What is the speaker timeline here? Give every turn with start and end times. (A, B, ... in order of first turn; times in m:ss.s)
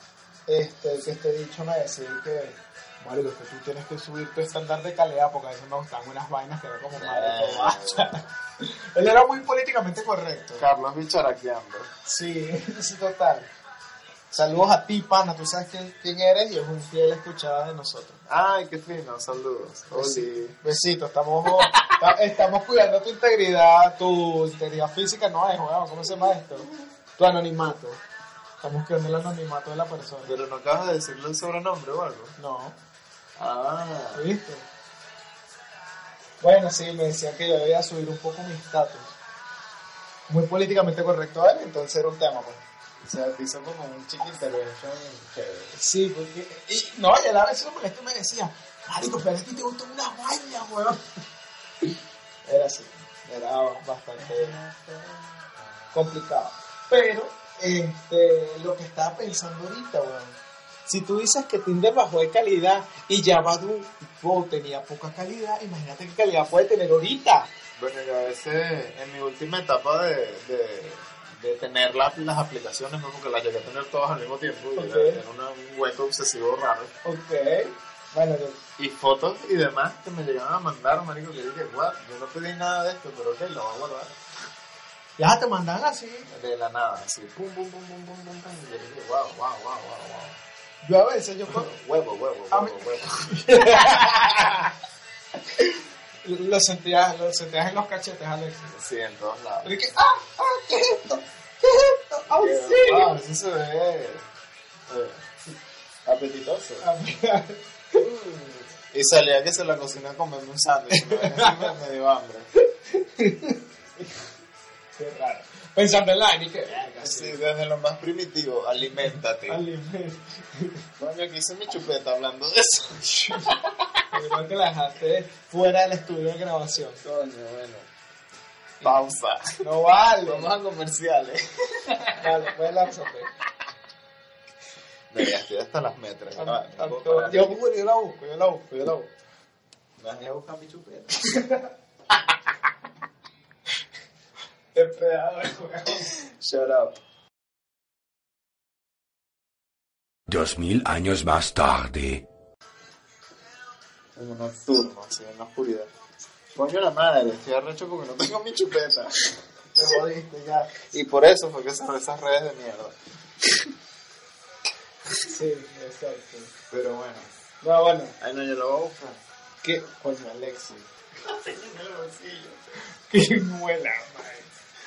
0:00.5-0:10.6 A
0:07.0-0:08.2 B
0:10.6-0:11.9 B
0:12.1-0:13.5 A
0:14.3-0:18.2 A
0:18.3-0:20.6 B
0:19.9-0:28.0 A
0:21.5-0:22.1 B
0:28.6-0:30.3 A
0:30.2-0:32.4 B
0:32.4-0:32.8 A
0:33.4-0:34.3 B
0:34.1-0:34.7 A
0:36.4-0:39.1 A
0:40.3-0:42.6 A
0:43.0-0:45.8 B
0:45.8-0:51.0 A
0:52.5-0:54.6 A
0:54.2-0:56.1 B
0:55.9-1:07.5 A
1:07.8-1:16.9 B
1:14.8-1:15.2 A
1:17.0-1:18.6 A
1:18.8-1:24.2 B
1:25.2-1:26.3 A
1:26.3-1:30.4 B
1:30.8-1:31.7 A
1:31.5-1:34.2 B
1:32.5-1:34.7 A
1:36.2-1:38.7 A
1:38.7-1:39.7 B
1:39.6-1:43.2 A
1:42.3-1:44.3 B
1:44.9-1:45.2 B
1:46.1-1:46.9 B
1:46.8-1:48.0 A
1:48.0-1:52.5 B
1:50.9-1:51.7 A
1:52.9-1:53.6 A
1:55.0-1:57.4 A
1:57.0-1:59.6 B
1:59.5-2:00.8 A
2:01.0-2:04.0 B
2:04.1-2:07.0 A
2:07.0-2:07.9 B
2:08.8-2:09.6 B
2:09.6-2:10.5 A
2:10.2-2:12.5 B
2:12.2-2:13.3 A
2:15.1-2:17.6 B
2:16.4-2:19.1 A
2:20.0-2:21.2 B
2:21.3-2:21.7 A
2:24.8-2:26.1 A
2:26.1-2:27.0 B
2:30.3-2:32.2 C
2:34.2-2:35.9 B
2:36.5-2:39.3 B
2:39.8-2:40.7 A
2:40.9-2:43.7 B
2:45.2-2:46.5 A
2:46.7-2:47.3 B
2:47.6-2:48.2 A
2:48.2-2:49.2 B
2:49.6-2:50.9 A
2:51.2-2:52.6 B
2:53.1-2:54.5 A